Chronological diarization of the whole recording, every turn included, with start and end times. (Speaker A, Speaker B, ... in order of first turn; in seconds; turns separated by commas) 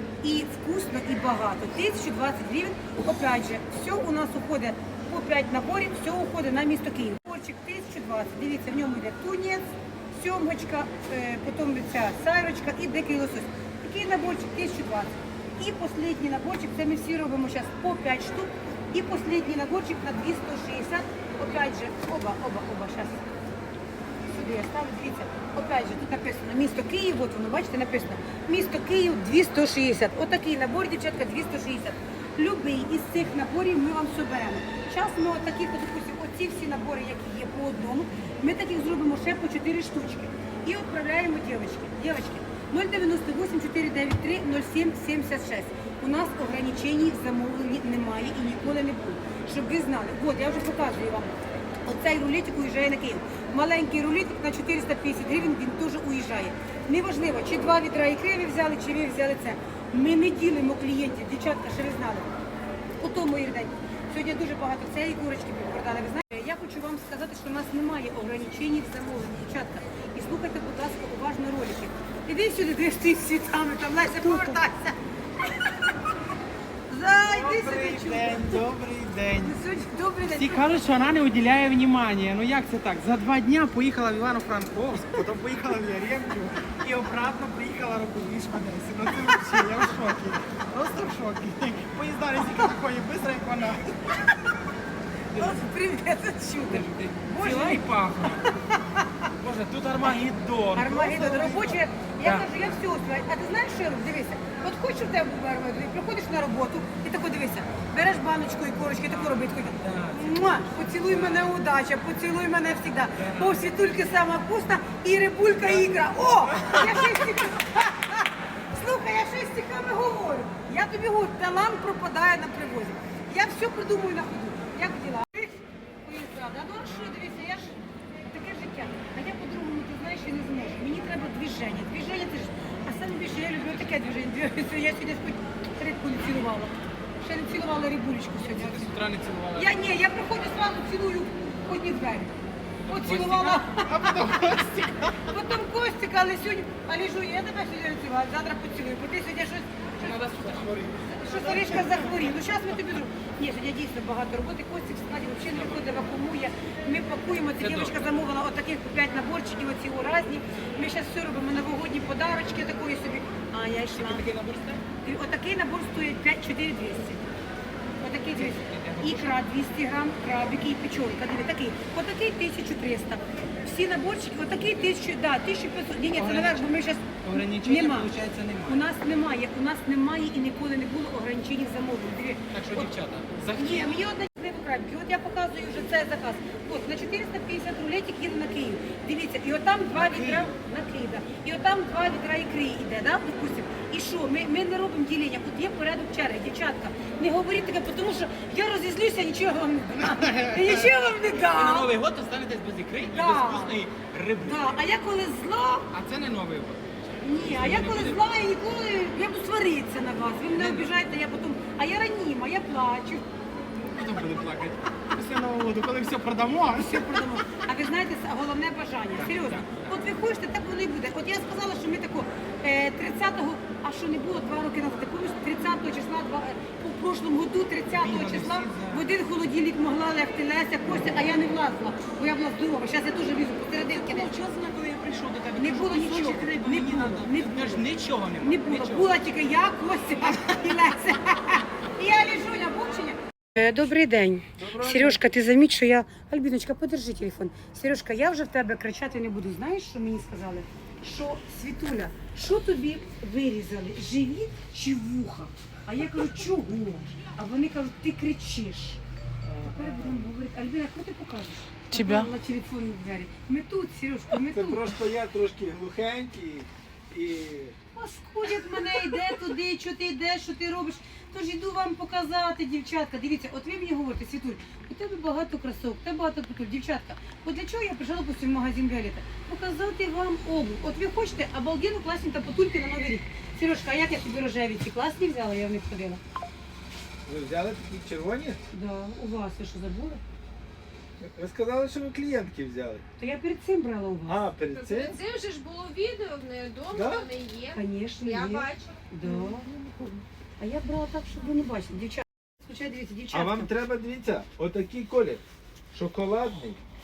Speaker A: 0.2-23.2, Speaker A: 24.3-62.3, Speaker A: 63.0-75.0, Speaker A: 76.9-78.6, Speaker B: 77.2-79.5, Speaker A: 79.3-80.7, Speaker B: 80.3-94.0, Speaker A: 95.3-97.8, Speaker B: 96.7-98.4, Speaker B: 99.4-102.5, Speaker A: 100.7-139.0, Speaker B: 109.1-111.5, Speaker B: 113.2-113.6, Speaker B: 116.5-116.9, Speaker B: 138.4-139.7, Speaker A: 139.5-142.3, Speaker A: 142.9-144.2, Speaker B: 142.9-145.3, Speaker A: 145.3-150.5, Speaker B: 150.0-152.2, Speaker A: 151.2-164.3, Speaker B: 155.6-155.8, Speaker B: 157.6-158.1, Speaker B: 163.8-164.8, Speaker A: 164.9-167.3, Speaker A: 168.0-178.1, Speaker B: 168.3-169.3, Speaker B: 176.2-176.7, Speaker B: 177.2-178.8, Speaker A: 178.6-182.9, Speaker B: 182.5-183.9, Speaker A: 183.5-201.9, Speaker B: 189.9-190.5, Speaker B: 200.0-200.9, Speaker B: 201.5-204.7, Speaker A: 203.0-203.8, Speaker A: 204.4-205.9, Speaker B: 205.9-208.2, Speaker A: 207.2-213.2, Speaker B: 210.5-211.1, Speaker B: 213.7-217.0, Speaker A: 216.7-234.3, Speaker B: 219.2-219.8, Speaker B: 227.9-229.1, Speaker B: 233.8-239.1, Speaker A: 235.6-259.0, Speaker C: 244.6-245.2, Speaker C: 259.5-260.2, Speaker A: 259.6-264.9, Speaker B: 261.9-262.3, Speaker C: 264.4-267.7, Speaker A: 267.9-286.2, Speaker C: 287.2-288.6, Speaker A: 288.7-290.2, Speaker C: 291.2-293.0, Speaker A: 293.2-294.4, Speaker C: 294.2-295.2, Speaker D: 294.7-300.2, Speaker C: 296.9-297.3, Speaker A: 297.7-299.7, Speaker A: 300.6-303.7, Speaker C: 303.3-305.4, Speaker C: 305.9-306.8